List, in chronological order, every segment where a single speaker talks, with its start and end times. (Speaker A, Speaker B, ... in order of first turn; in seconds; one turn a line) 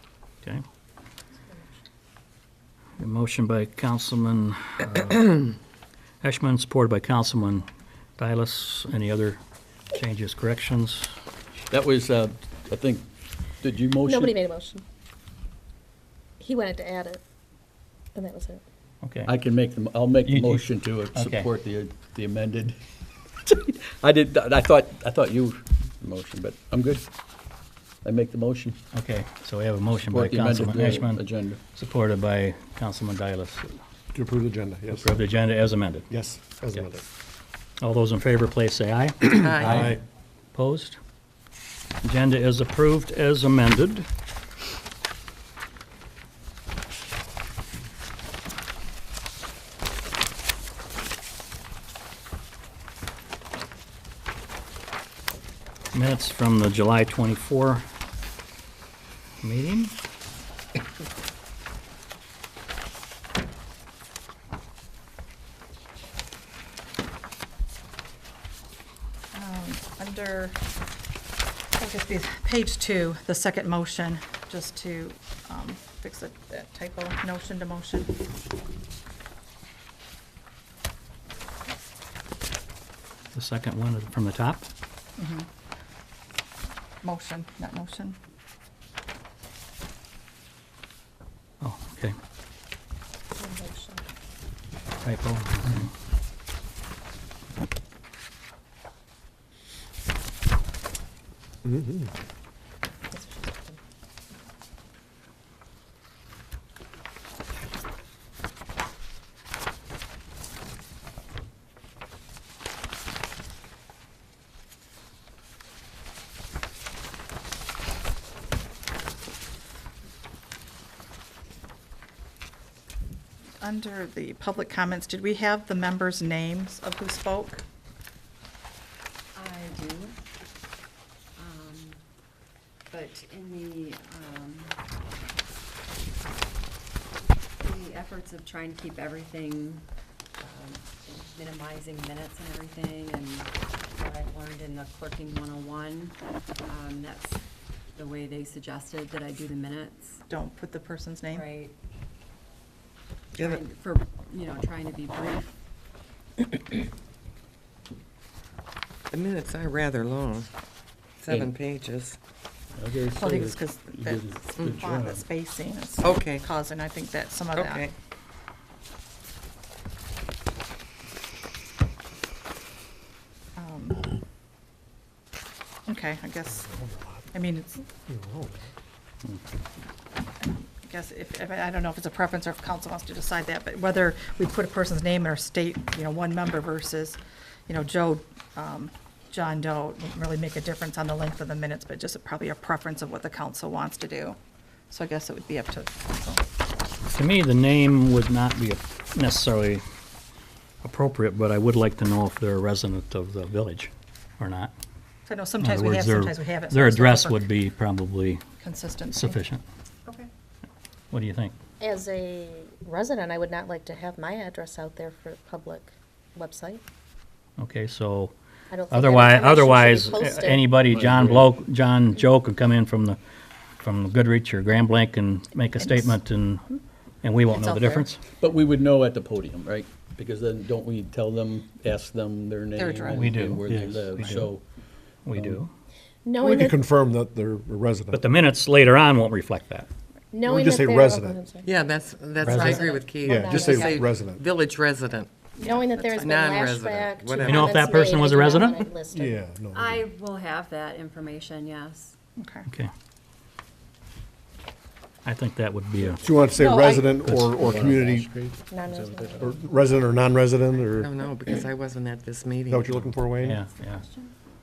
Speaker A: 3.0-5.5
Speaker A: 6.2-7.7
Speaker A: 8.2-9.4
Speaker A: 9.9-11.1
Speaker B: 11.7-13.0
Speaker B: 13.6-14.3
Speaker C: 14.0-14.8
Speaker C: 16.4-17.2
Speaker C: 18.1-18.6
Speaker A: 19.0-19.3
Speaker B: 19.2-22.8
Speaker A: 20.3-21.5
Speaker B: 23.4-27.0
Speaker B: 28.0-28.8
Speaker A: 28.9-33.8
Speaker B: 30.0-31.6
Speaker D: 34.1-35.2
Speaker A: 34.9-36.1
Speaker D: 36.1-37.0
Speaker A: 37.8-40.0
Speaker E: 39.3-39.9
Speaker D: 39.6-40.0
Speaker A: 40.5-41.0
Speaker A: 42.0-44.0
Speaker A: 55.9-57.8
Speaker A: 59.4-59.9
Speaker F: 69.3-70.6
Speaker F: 71.8-78.2
Speaker A: 83.3-84.6
Speaker F: 85.2-85.5
Speaker F: 87.0-88.2
Speaker A: 91.6-92.1
Speaker C: 93.4-94.0
Speaker A: 95.0-95.9
Speaker D: 101.6-102.1
Speaker C: 103.1-103.8
Speaker F: 123.6-127.6
Speaker G: 129.3-130.2
Speaker G: 131.3-132.0
Speaker G: 132.9-134.8
Speaker G: 137.6-139.8
Speaker G: 140.4-147.4
Speaker G: 147.9-150.2
Speaker F: 150.3-151.4
Speaker G: 151.3-151.7
Speaker E: 153.3-153.7
Speaker G: 153.4-155.5
Speaker E: 159.1-160.5
Speaker E: 161.2-162.2
Speaker B: 162.7-165.2
Speaker F: 163.1-167.9
Speaker E: 164.6-164.8
Speaker E: 166.0-166.4
Speaker E: 167.5-167.9
Speaker F: 173.6-174.1
Speaker F: 175.8-176.7
Speaker D: 176.6-177.3
Speaker F: 177.3-177.8
Speaker D: 178.1-178.7
Speaker F: 180.4-194.4
Speaker F: 194.9-196.4
Speaker A: 197.1-199.8
Speaker A: 200.8-204.7
Speaker F: 205.2-207.4
Speaker A: 205.6-208.4
Speaker F: 208.6-209.4
Speaker A: 209.1-209.6
Speaker A: 211.1-211.5
Speaker C: 211.8-216.8
Speaker A: 217.6-218.3
Speaker C: 218.7-220.7
Speaker A: 218.9-223.2
Speaker B: 220.9-221.5
Speaker A: 223.8-226.7
Speaker F: 225.8-226.2
Speaker A: 227.2-228.2
Speaker F: 227.5-228.1
Speaker B: 228.4-234.6
Speaker F: 232.7-233.4
Speaker A: 233.1-234.5
Speaker A: 235.2-235.7
Speaker B: 235.3-235.6
Speaker C: 236.2-236.8
Speaker D: 236.4-238.3
Speaker A: 238.1-239.9
Speaker C: 240.3-241.7
Speaker D: 240.4-241.4
Speaker E: 241.6-245.3
Speaker A: 242.4-242.8
Speaker F: 242.4-242.8
Speaker C: 242.7-243.8
Speaker D: 243.2-244.4
Speaker F: 243.6-244.0
Speaker F: 245.6-246.3
Speaker G: 245.6-246.1
Speaker C: 245.6-249.4
Speaker E: 246.1-248.9
Speaker A: 247.4-248.8
Speaker D: 249.1-250.1
Speaker G: 249.7-252.1
Speaker F: 252.4-252.6
Speaker A: 255.2-256.4
Speaker D: 256.2-258.6
Speaker F: 256.6-257.1
Speaker A: 257.1-257.8
Speaker C: 258.7-259.6
Speaker D: 259.4-261.1
Speaker E: 260.9-263.0
Speaker D: 262.7-263.6
Speaker A: 263.4-264.0
Speaker G: 263.8-264.3